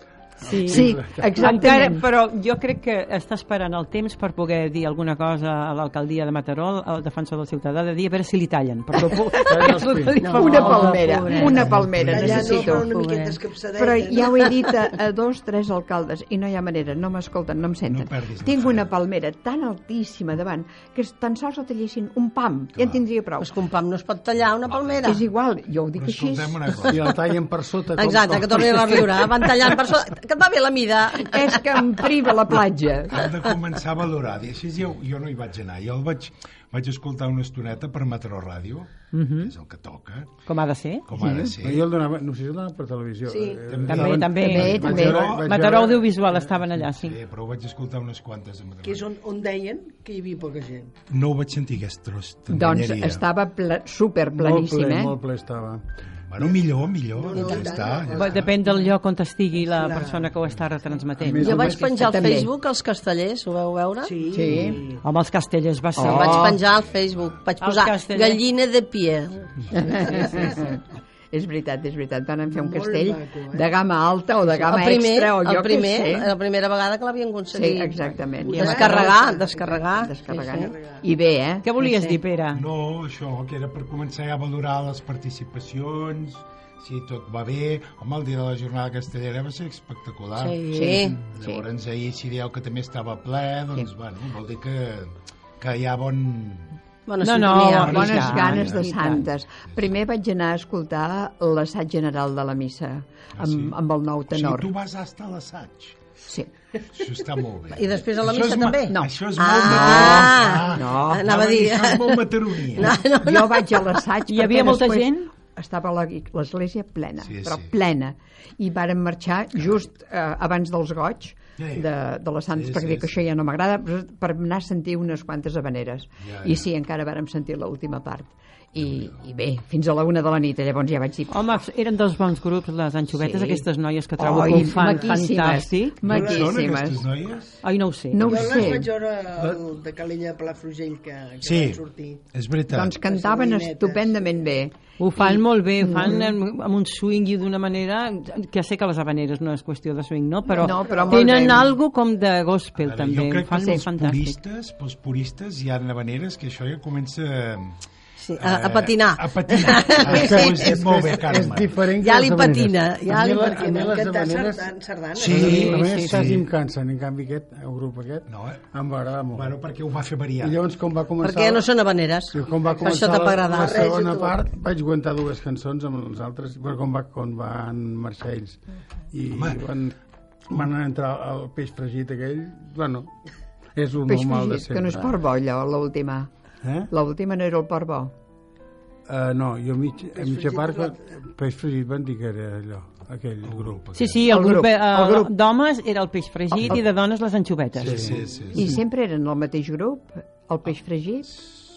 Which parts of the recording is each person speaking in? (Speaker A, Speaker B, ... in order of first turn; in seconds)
Speaker A: 0.4-11.6, 39.1-39.5, 40.5-41.1, 43.9-47.2, 58.1-62.1, 65.0-66.5, 67.6-68.4, 81.6-82.7, 97.2-99.2, 114.3-115.3, 131.3-136.1, 137.6-138.3, 145.0-154.4, 165.4-166.2, 193.9-198.1
Speaker B: 0.5-1.3, 9.3-10.1, 26.9-29.3, 41.2-46.2, 54.3-55.8, 61.2-61.8, 160.0-169.6, 170.4-171.7, 172.3-179.9, 180.5-183.1, 183.7-185.2, 186.6-186.9, 189.1-193.8, 197.8-198.2
Speaker C: 0.5-2.0, 10.3-12.9, 13.8-23.5, 25.0-26.8, 31.2-33.2, 41.2-41.5, 44.3-45.3, 52.5-55.1, 61.8-62.5, 64.3-64.8, 66.0-66.6, 69.7-76.3, 77.5-79.2, 80.0-82.2, 90.7-91.6, 97.7-104.7, 106.2-106.5, 108.9-109.1, 109.6-111.3, 113.0-131.4, 133.2-133.6, 134.2-137.0, 138.1-138.9, 142.7-146.3, 150.6-151.7, 153.6-153.8, 184.1-186.3, 186.9-188.1, 194.3-195.3, 198.5-201.3
Speaker D: 10.2-13.4, 23.4-25.2, 28.0-31.5, 61.4-64.2, 66.0-70.2, 74.5-80.7, 90.4-91.2, 97.1-98.2, 107.7-113.8, 158.2-160.7, 161.9-163.8, 171.2-173.9
Speaker E: 11.6-12.7, 17.9-18.9, 24.6-25.1, 26.0-27.1, 33.1-40.3, 41.1-41.8, 43.7-45.6, 46.8-49.1, 51.1-53.2, 56.3-58.5, 82.5-90.6, 91.2-96.7, 97.6-98.9, 103.4-103.7, 104.3-106.0, 106.9-113.0, 117.2-117.7, 121.6-121.9, 122.5-123.1, 126.2-126.6, 136.1-137.6, 138.3-138.7, 141.4-141.8, 142.3-143.0, 152.8-157.8, 158.4-161.8, 165.1-166.4, 168.3-168.6, 169.3-170.6, 179.3-179.6, 193.4-194.2, 197.8-198.7
Speaker F: 12.1-14.6, 43.3-43.6, 48.8-50.9, 57.1-58.9, 59.7-60.3, 64.0-65.0, 69.9-70.7, 72.5-73.7, 78.4-81.0, 134.7-135.2, 136.0-136.5, 138.2-142.2, 143.0-144.2, 150.7-151.4, 163.2-165.7, 172.8-174.4, 190.1-191.2